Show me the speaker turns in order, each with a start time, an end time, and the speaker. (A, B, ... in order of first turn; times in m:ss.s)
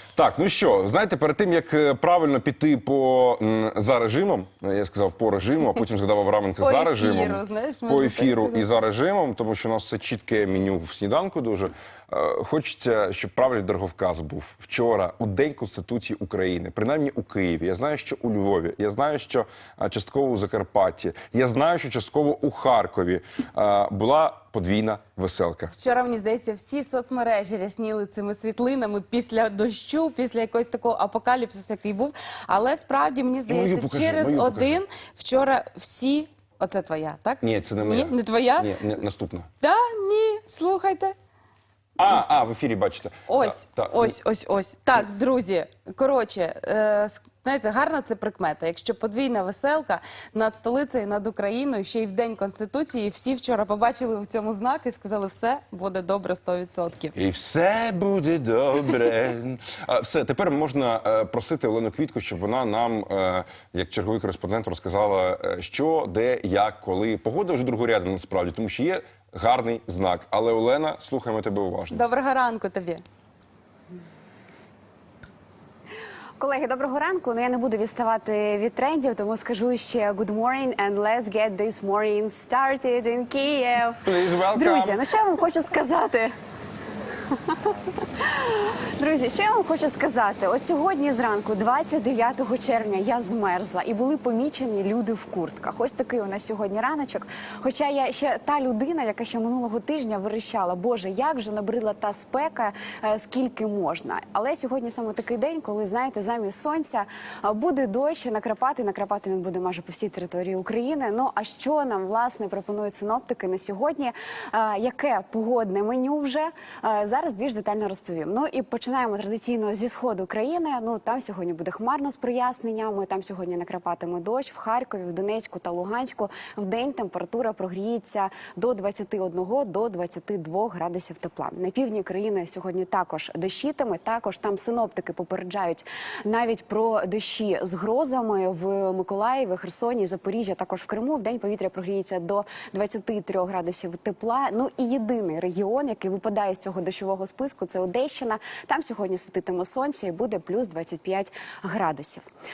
0:00.1-0:25.7 A
0:06.6-0:08.6 B
0:25.7-0:38.7 B
0:33.5-0:34.8 A
0:37.4-0:39.5 A
0:39.6-0:41.1 B
0:42.0-0:44.1 A
0:43.3-0:57.1 B
0:57.1-1:12.0 A
1:11.9-1:13.0 B
1:16.4-1:26.3 C
1:24.0-1:25.0 A
1:27.5-2:32.2 C